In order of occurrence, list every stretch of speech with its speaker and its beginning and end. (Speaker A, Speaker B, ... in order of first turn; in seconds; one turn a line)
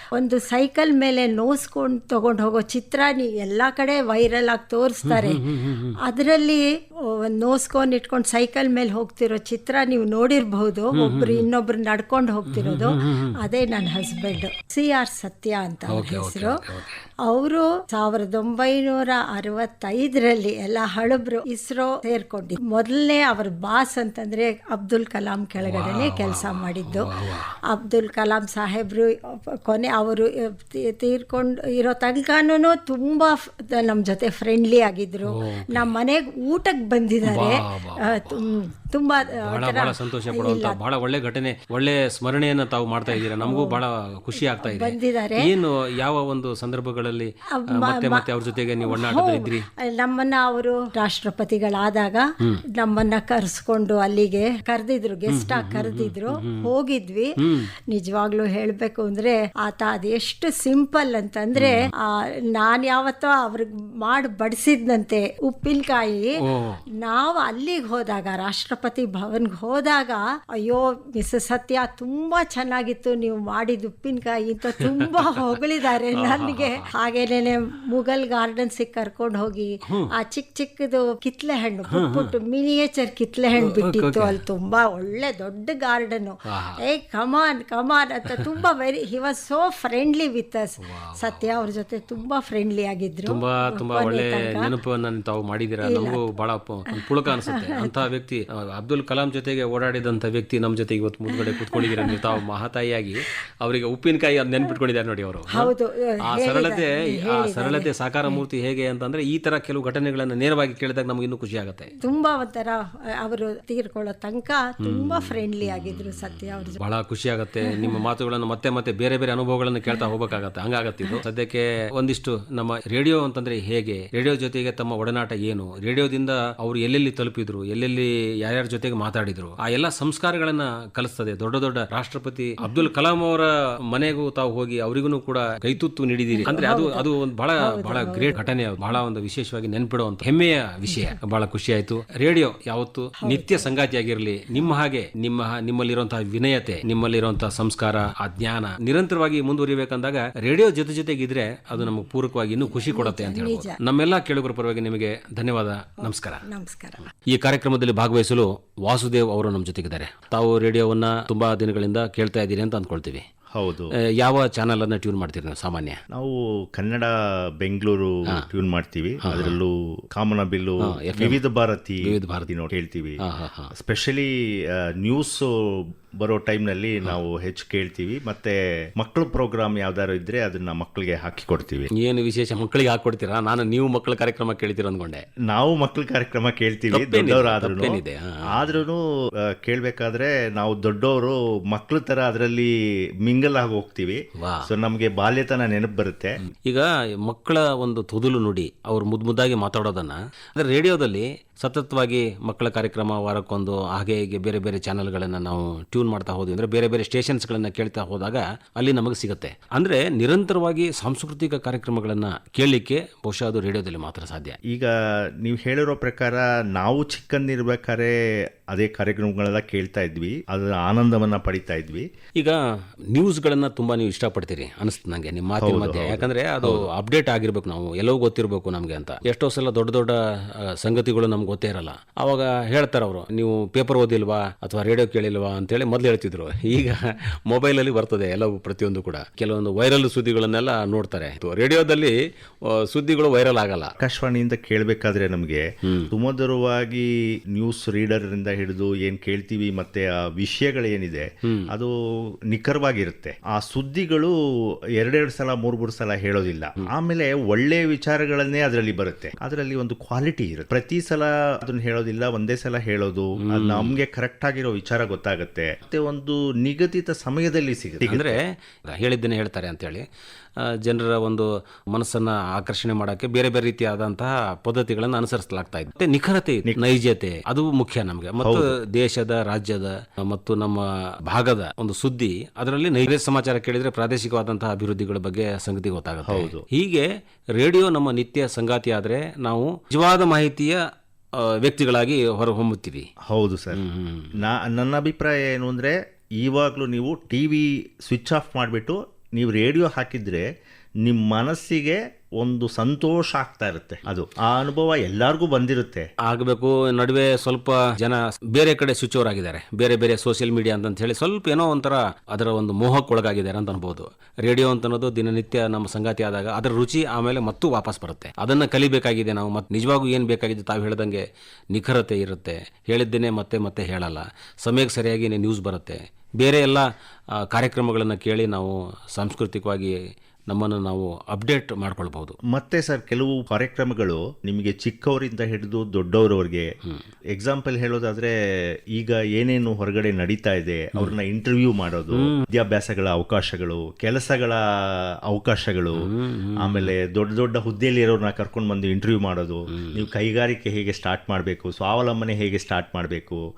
Speaker A: 0.1-5.4
Speaker B: 5.0-6.0
Speaker A: 6.0-16.6
Speaker B: 10.9-11.4
Speaker B: 12.5-13.4
Speaker B: 15.9-17.0
Speaker A: 17.2-27.1
Speaker B: 25.6-27.5
Speaker A: 27.7-40.8
Speaker B: 35.3-35.9
Speaker B: 37.2-38.4
Speaker B: 39.4-49.7
Speaker A: 43.1-43.8
Speaker A: 44.4-45.5
Speaker A: 47.5-48.3
Speaker A: 48.8-57.3
Speaker B: 55.3-56.7
Speaker B: 57.4-57.7
Speaker A: 57.9-66.3
Speaker B: 61.5-61.9
Speaker B: 66.4-66.8
Speaker A: 67.0-94.7
Speaker B: 75.0-75.4
Speaker B: 76.1-76.9
Speaker B: 81.9-82.3
Speaker B: 83.6-84.4
Speaker B: 86.5-86.8
Speaker B: 90.8-91.5
Speaker B: 93.3-105.7
Speaker A: 95.8-96.3
Speaker A: 97.0-97.9
Speaker A: 101.3-102.2
Speaker A: 105.5-108.4
Speaker B: 106.3-111.9
Speaker A: 112.0-116.8
Speaker B: 114.8-156.4
Speaker A: 132.6-132.9
Speaker A: 136.3-137.1
Speaker A: 137.6-138.5
Speaker A: 140.9-141.1
Speaker A: 143.2-143.7
Speaker A: 152.7-153.8
Speaker A: 156.0-157.1
Speaker B: 157.3-163.2
Speaker C: 163.5-163.9
Speaker B: 164.2-166.0
Speaker C: 166.1-173.2
Speaker B: 169.2-169.5
Speaker B: 170.8-171.4
Speaker B: 172.0-172.5
Speaker B: 173.2-173.7
Speaker C: 173.8-181.9
Speaker B: 182.0-185.2
Speaker C: 185.5-188.0
Speaker B: 186.9-188.7
Speaker C: 188.5-189.0
Speaker C: 189.6-192.7
Speaker C: 193.2-196.3
Speaker B: 194.4-194.7
Speaker B: 196.6-214.6
Speaker C: 214.7-218.1
Speaker C: 218.7-222.1
Speaker B: 223.1-230.2
Speaker C: 225.6-226.9
Speaker B: 230.7-242.1
Speaker B: 242.7-243.9
Speaker C: 244.0-254.3
Speaker B: 245.8-246.1
Speaker C: 255.0-268.4
Speaker B: 263.4-263.9
Speaker B: 268.1-270.1
Speaker B: 270.7-287.1
Speaker C: 278.4-278.7
Speaker C: 286.2-286.6
Speaker B: 287.6-290.8
Speaker B: 291.4-293.1
Speaker C: 293.3-293.8
Speaker B: 293.8-294.4
Speaker C: 294.4-300.4
Speaker C: 301.0-306.1
Speaker B: 306.3-326.9
Speaker B: 327.4-329.9
Speaker B: 330.5-332.4
Speaker C: 332.5-336.7
Speaker C: 337.3-338.3
Speaker C: 338.9-346.1
Speaker B: 342.1-342.4
Speaker B: 346.0-346.9
Speaker C: 346.6-353.4
Speaker B: 349.8-350.0